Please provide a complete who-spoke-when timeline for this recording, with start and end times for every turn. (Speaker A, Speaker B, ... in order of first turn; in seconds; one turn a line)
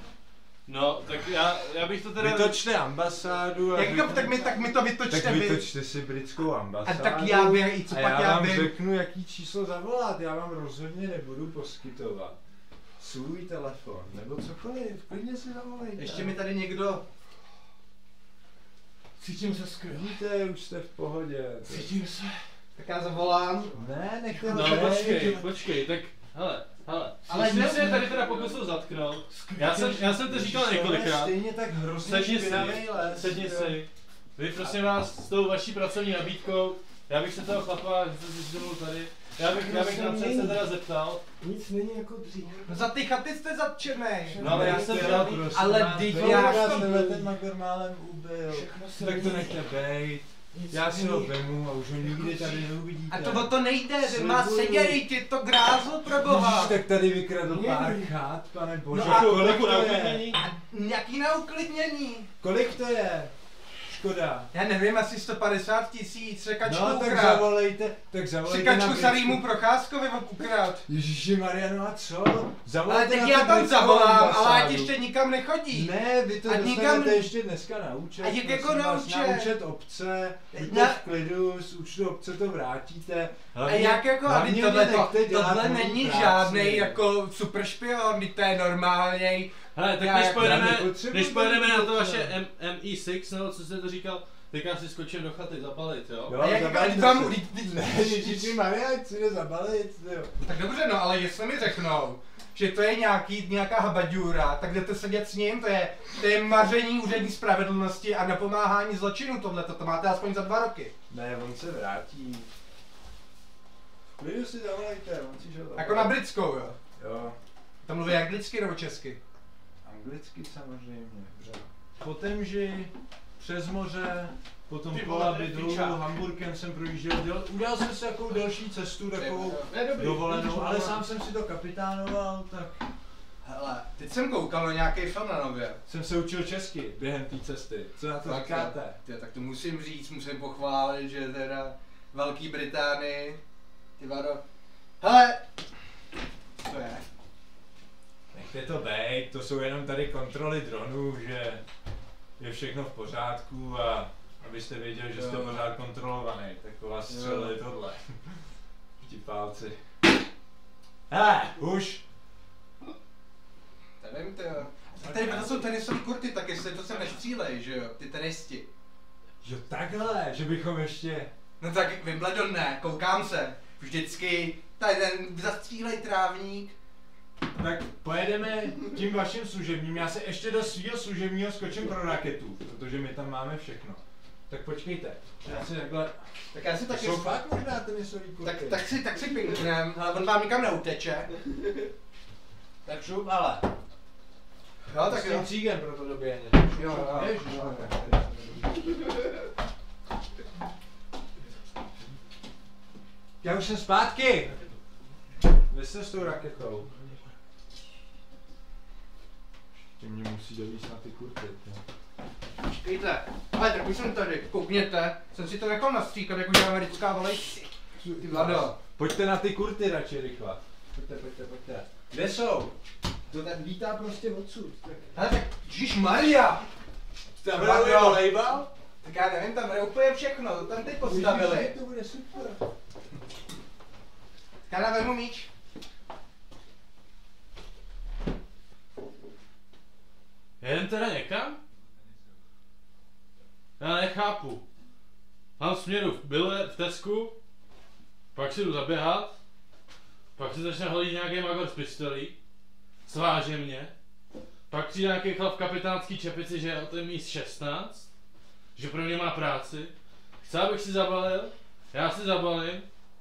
Speaker A: 0.7-2.6
Speaker B: 2.2-4.4
Speaker C: 3.7-5.6
Speaker D: 4.0-4.7
Speaker B: 5.1-12.4
Speaker C: 6.8-8.7
Speaker B: 13.0-16.3
Speaker C: 15.9-17.0
Speaker D: 19.2-20.2
Speaker B: 19.9-21.9
Speaker D: 21.6-22.5
Speaker C: 22.8-23.7
Speaker B: 23.7-25.5
Speaker D: 24.3-25.0
Speaker A: 24.5-31.3
Speaker C: 27.3-28.1
Speaker D: 29.3-29.9
Speaker B: 29.4-33.8
Speaker A: 32.0-41.2
Speaker D: 32.4-33.7
Speaker D: 39.4-40.6
Speaker D: 41.4-42.9
Speaker C: 42.6-44.4
Speaker D: 44.2-47.2
Speaker A: 44.4-45.6
Speaker B: 44.4-55.0
Speaker C: 45.5-46.9
Speaker D: 48.5-49.6
Speaker D: 50.5-51.4
Speaker D: 52.2-52.6
Speaker C: 53.1-56.7
Speaker B: 56.2-60.4
Speaker D: 57.4-58.1
Speaker A: 58.9-60.4
Speaker C: 58.9-62.3
Speaker B: 62.4-63.3
Speaker B: 63.9-64.5
Speaker C: 64.5-67.5
Speaker B: 66.6-69.4
Speaker C: 68.4-70.8
Speaker B: 70.8-74.9
Speaker C: 72.9-75.9
Speaker B: 75.7-87.0
Speaker C: 76.4-77.3
Speaker C: 78.2-79.5
Speaker C: 80.5-81.0
Speaker C: 83.6-90.7
Speaker A: 89.7-96.4
Speaker B: 90.3-92.3
Speaker B: 96.3-100.3
Speaker C: 96.4-98.6
Speaker C: 100.4-110.9
Speaker B: 111.1-112.5
Speaker B: 114.2-116.2
Speaker C: 115.8-116.8
Speaker B: 117.0-117.4
Speaker C: 117.8-119.2
Speaker B: 119.8-132.8
Speaker D: 124.9-126.0
Speaker C: 129.2-129.7
Speaker D: 129.6-131.0
Speaker C: 133.4-135.8
Speaker B: 135.9-139.0
Speaker C: 138.2-143.4
Speaker C: 144.0-144.4
Speaker C: 145.0-145.4
Speaker C: 146.6-147.0
Speaker B: 148.3-151.6
Speaker B: 152.4-158.4
Speaker C: 155.1-155.7
Speaker C: 157.1-157.5
Speaker B: 159.0-159.8
Speaker B: 161.1-162.0
Speaker C: 164.0-168.7
Speaker B: 165.0-165.5
Speaker B: 169.4-171.3
Speaker C: 171.6-176.7
Speaker B: 177.5-186.2
Speaker C: 186.5-187.4
Speaker B: 186.9-188.8
Speaker C: 188.4-191.3
Speaker B: 192.8-193.7
Speaker C: 194.9-195.5
Speaker B: 195.0-198.7
Speaker C: 196.7-198.5
Speaker B: 203.4-204.5
Speaker B: 205.7-206.9
Speaker D: 206.3-207.2
Speaker B: 210.0-211.8
Speaker C: 212.8-218.8
Speaker B: 218.0-222.8
Speaker B: 223.3-225.2
Speaker C: 225.1-226.7
Speaker B: 227.4-228.7
Speaker C: 227.5-228.4
Speaker C: 229.0-231.8
Speaker B: 231.0-232.6
Speaker C: 234.7-235.5
Speaker A: 240.6-241.6
Speaker B: 241.8-242.4
Speaker A: 243.8-244.6
Speaker A: 245.6-247.3
Speaker A: 248.3-249.3
Speaker A: 250.3-252.3
Speaker A: 253.1-253.9
Speaker A: 254.7-258.1
Speaker A: 258.8-262.9